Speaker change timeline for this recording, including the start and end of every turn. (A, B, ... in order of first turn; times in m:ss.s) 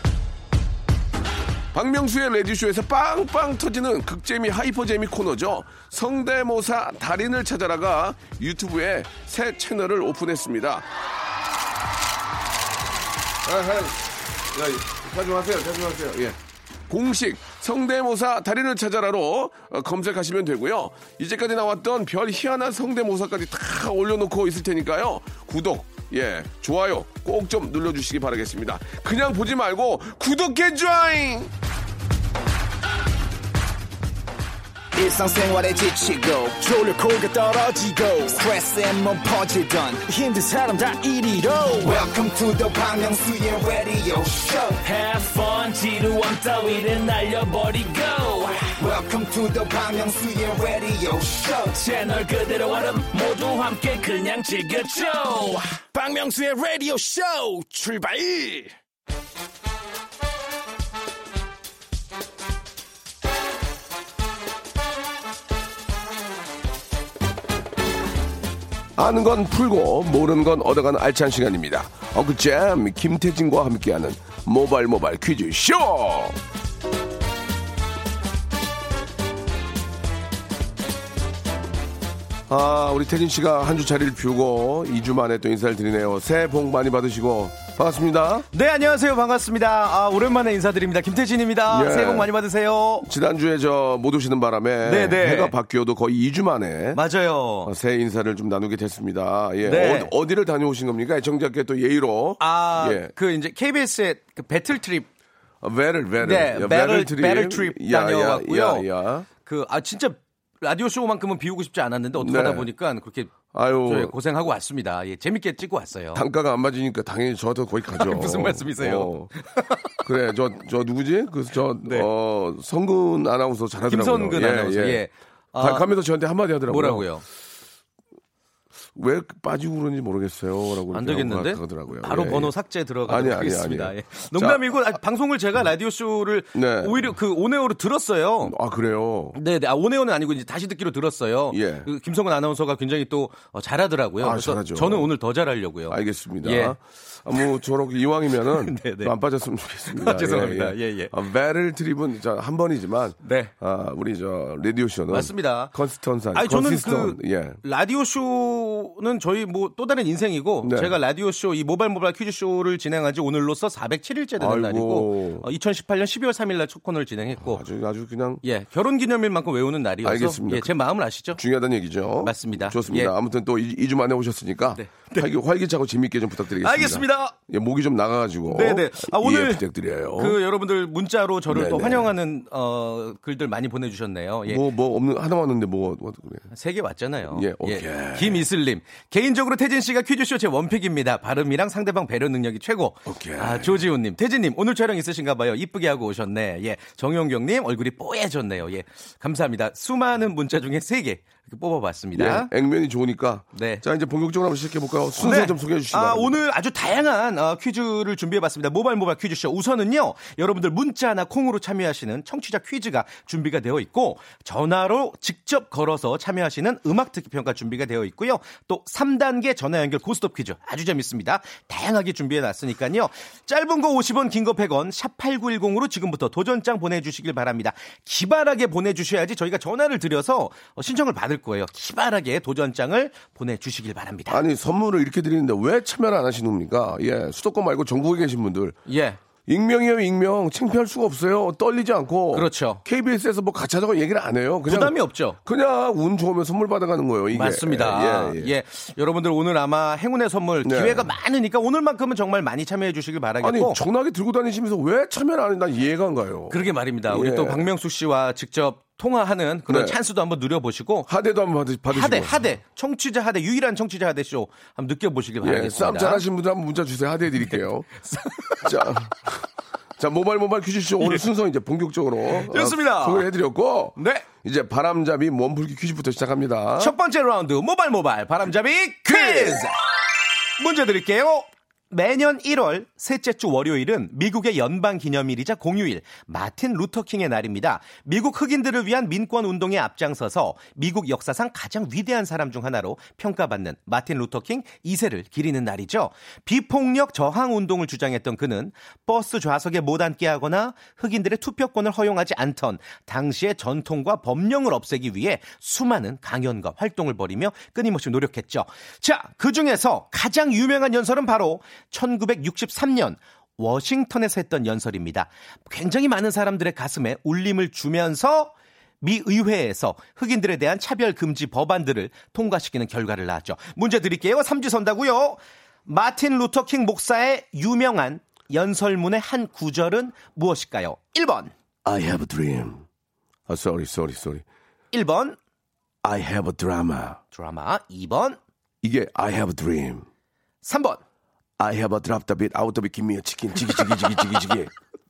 0:01.7-0:10.9 A
0:13.4-0:31.5 A
0:35.0-0:44.8 B
0:44.8-0:48.7 C
0:48.8-0:51.8 B
0:51.7-0:55.8 C
0:55.9-0:58.7 D
1:09.0-1:16.4 A
1:22.5-1:28.5 A
1:28.5-1:33.1 E
1:31.7-1:32.3 A
1:33.0-1:37.0 A
1:34.8-1:35.6 E
1:36.9-1:37.8 E
1:37.6-1:43.1 A
1:39.6-1:40.1 E
1:42.4-1:45.1 E
1:45.6-1:49.3 A
1:46.2-1:48.9 E
1:49.4-1:56.2 E
1:52.2-1:52.7 A
1:53.5-1:54.1 A
1:56.1-1:59.3 A
1:58.0-2:00.0 E
2:00.0-2:05.0 A
2:01.8-2:02.1 E
2:03.9-2:05.9 E
2:05.6-2:07.1 A
2:06.7-2:07.2 E
2:08.9-2:12.5 A
2:10.9-2:18.5 E
2:13.1-2:14.6 A
2:16.5-2:17.1 A
2:18.4-2:19.4 A
2:19.3-2:26.8 E
2:21.5-2:21.9 A
2:24.2-2:25.1 A
2:25.9-2:37.6 A
2:28.5-2:29.1 E
2:29.9-2:31.1 E
2:33.2-2:33.5 E
2:35.1-2:35.7 E
2:36.3-2:47.6 E
2:40.6-2:40.9 A
2:44.4-2:45.5 A
2:47.4-2:48.4 A
2:48.4-2:51.4 E
2:50.0-2:50.8 A
2:51.3-3:00.4 A
2:52.2-2:53.1 E
2:54.8-2:55.3 E
2:56.6-2:57.3 E
2:58.5-2:59.6 E
3:00.2-3:04.6 E
3:01.5-3:02.1 A
3:04.4-3:06.5 A
3:06.5-3:22.5 E
3:07.3-3:08.4 A
3:13.1-3:13.8 A
3:22.1-3:26.4 A
3:23.6-3:23.8 E
3:25.2-3:54.4 E
3:54.3-3:58.8 A
3:58.9-3:59.2 E
3:59.5-4:08.5 A
4:02.3-4:02.8 E
4:04.7-4:05.4 E
4:07.3-4:13.8 E
4:10.6-4:11.1 A
4:13.4-4:17.7 A
4:16.5-4:21.1 E
4:19.7-4:20.0 A
4:21.1-4:22.5 A
4:21.9-4:26.2 E
4:25.4-4:27.9 A
4:27.5-4:28.9 E
4:28.6-4:29.4 A
4:30.0-4:37.0 A
4:32.3-4:33.3 E
4:34.0-4:34.3 E
4:36.8-4:39.7 E
4:39.1-4:39.7 A
4:40.6-5:31.5 E
5:31.8-5:32.8 A
5:33.5-5:34.4 A
5:34.9-5:35.4 E
5:36.0-5:37.2 A
5:37.3-5:38.4 E
5:38.8-5:40.1 A
5:40.6-5:41.0 E
5:41.6-5:44.7 A
5:43.7-5:44.4 E